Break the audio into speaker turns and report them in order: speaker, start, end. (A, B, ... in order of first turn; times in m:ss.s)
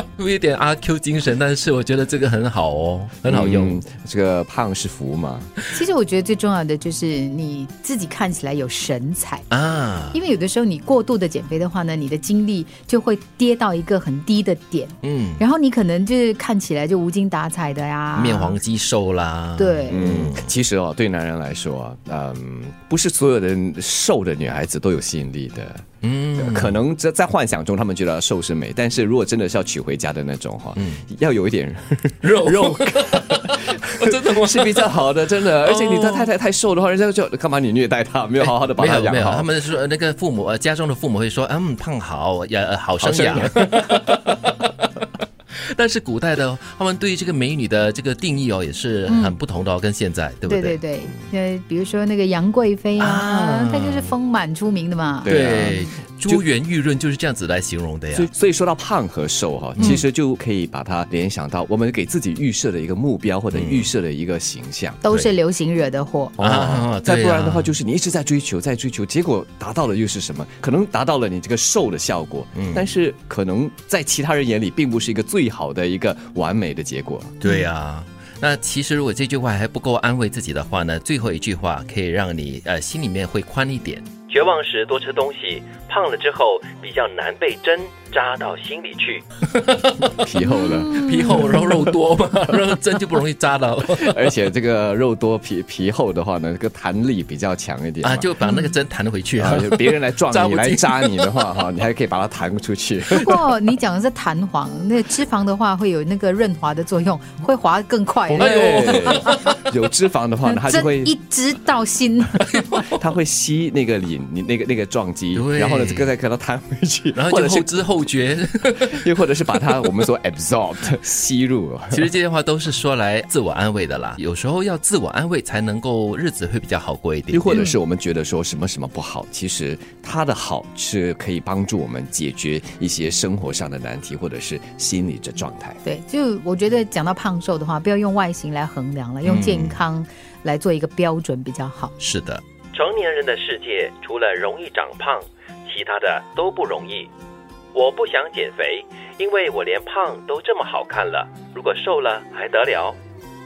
0:00.2-0:03.8 A
0:03.2-0:05.5 B
0:05.7-0:09.5 C
0:09.5-0:10.2 A
0:10.1-0:18.6 C
0:15.0-0:15.4 A
0:18.2-0:20.5 A
0:19.6-0:20.1 C
0:19.9-0:39.5 B
0:26.0-0:26.8 A
0:30.8-0:31.0 A
0:32.2-0:36.3 A
0:38.4-0:44.6 A
0:43.0-0:44.0 B
0:45.5-0:50.8 A
0:49.1-0:49.4 C
0:50.5-0:55.3 C
0:53.0-0:54.1 A
0:55.2-0:56.4 B
0:55.3-0:58.3 A
0:58.1-1:05.0 B
0:59.8-1:00.0 A
1:03.5-1:03.9 A
1:05.0-1:06.4 C
1:06.4-1:17.4 B
1:06.4-1:07.8 A
1:12.5-1:12.8 A
1:17.4-1:24.2 A
1:24.3-1:29.2 D
1:29.4-1:34.3 A
1:30.2-1:31.0 B
1:30.4-1:31.8 C
1:33.9-1:38.3 B
1:38.0-1:41.6 A
1:38.4-1:38.7 C
1:39.4-1:43.4 B
1:43.2-1:49.5 C
1:48.3-1:51.2 B
1:48.4-1:49.6 A
1:50.4-1:52.6 C
1:52.5-1:53.0 A
1:52.9-1:57.8 B
1:55.3-1:56.1 A
1:57.2-1:59.0 A
1:58.8-2:02.1 B
2:01.9-2:07.7 A
2:07.3-2:15.8 B
2:07.5-2:07.8 C
2:15.8-2:21.9 C
2:19.2-2:19.8 A
2:22.0-2:22.4 A
2:22.7-2:27.0 D
2:26.0-2:26.9 A
2:27.8-2:32.8 D
2:28.5-2:28.8 A
2:30.9-2:32.9 A